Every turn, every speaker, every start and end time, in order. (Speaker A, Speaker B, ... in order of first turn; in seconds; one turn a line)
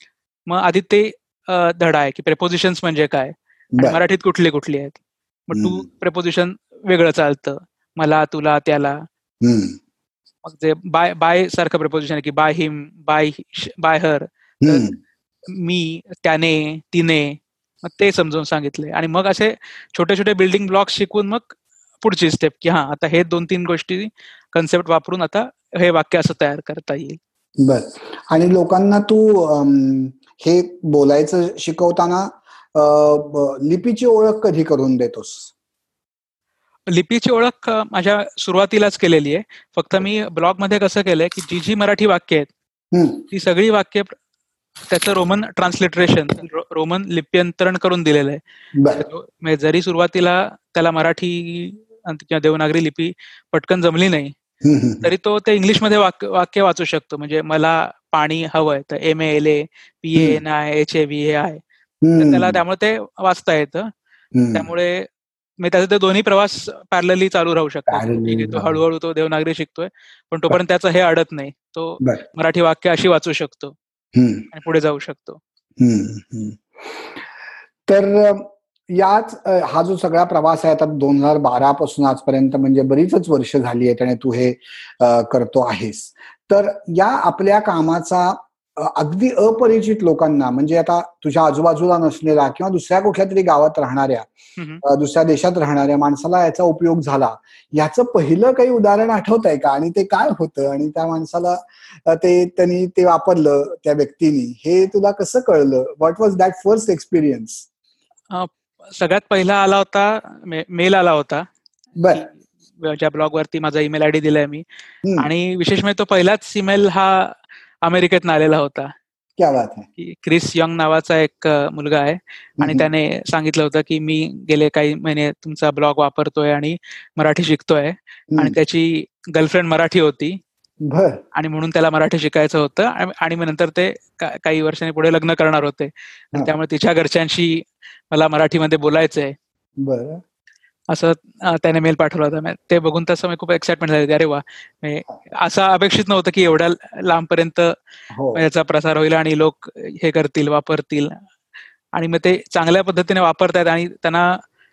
Speaker A: 0.5-9.0
Speaker B: 5.5-5.8
Speaker B: 9.4-9.8
Speaker A: 10.4-14.8
Speaker B: 14.6-14.9
Speaker A: 15.5-27.2
Speaker B: 27.6-35.5
Speaker A: 36.9-42.5
Speaker B: 42.9-43.2
Speaker A: 43.3-44.1
Speaker A: 44.9-48.4
Speaker B: 48.7-49.0
Speaker A: 48.9-54.3
Speaker B: 54.6-55.0
Speaker A: 55.0-61.6
Speaker B: 62.0-62.6
Speaker A: 62.1-63.9
Speaker B: 64.3-64.7
Speaker A: 64.5-65.1
Speaker A: 65.6-73.8
Speaker B: 67.9-68.8
Speaker B: 74.1-74.5
Speaker A: 74.5-75.4
Speaker B: 75.8-77.2
Speaker B: 77.9-94.3
Speaker A: 94.6-94.8
Speaker B: 94.8-107.6
Speaker A: 108.3-111.5
Speaker B: 112.0-112.3
Speaker A: 112.1-114.6
Speaker B: 115.0-115.3
Speaker A: 115.2-118.9
Speaker B: 119.4-119.9
Speaker A: 120.0-130.4
Speaker B: 122.6-122.9
Speaker B: 130.8-131.2
Speaker A: 131.3-139.3
Speaker B: 139.8-140.2
Speaker A: 140.9-147.7
Speaker B: 148.1-148.4
Speaker A: 148.3-151.2
Speaker A: 151.9-154.4